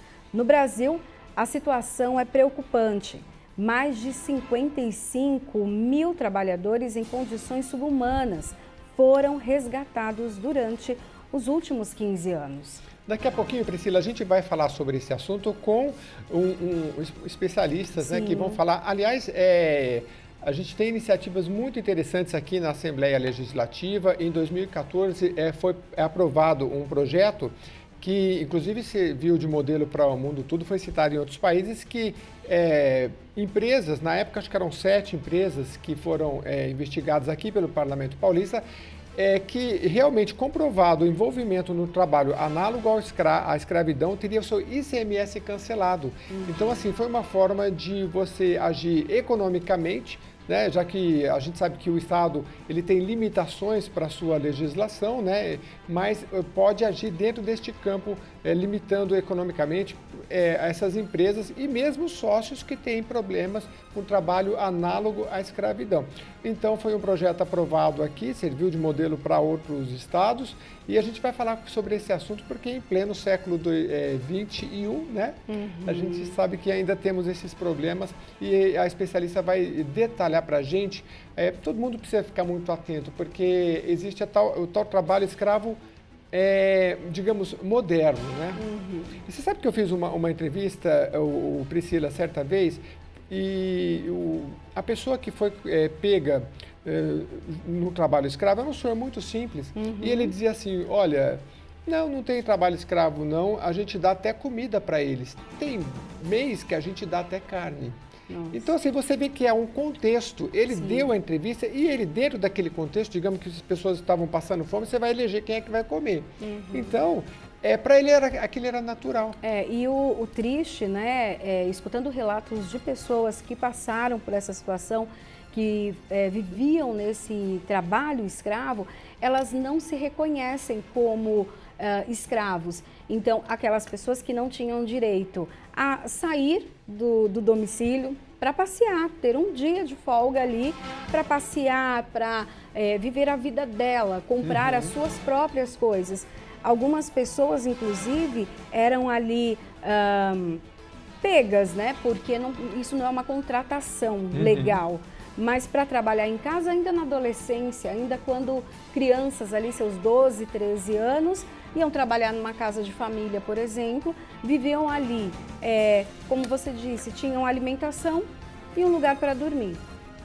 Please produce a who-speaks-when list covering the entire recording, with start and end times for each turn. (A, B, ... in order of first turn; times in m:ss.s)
0:00.3-0:12.8 A
0:13.1-0:38.6 B
0:18.0-0:18.6 A
0:39.1-1:25.8 B
1:15.5-1:16.4 A
1:26.3-1:28.6 B
1:28.6-1:29.1 A
1:29.2-1:48.0 B
1:39.7-1:40.3 A
1:48.3-1:48.7 A
1:48.5-1:59.4 B
1:50.7-1:51.1 A
1:56.4-1:57.0 A
1:59.4-2:30.6 A
2:24.4-2:24.9 B
2:31.2-2:49.8 A
2:34.3-2:34.8 B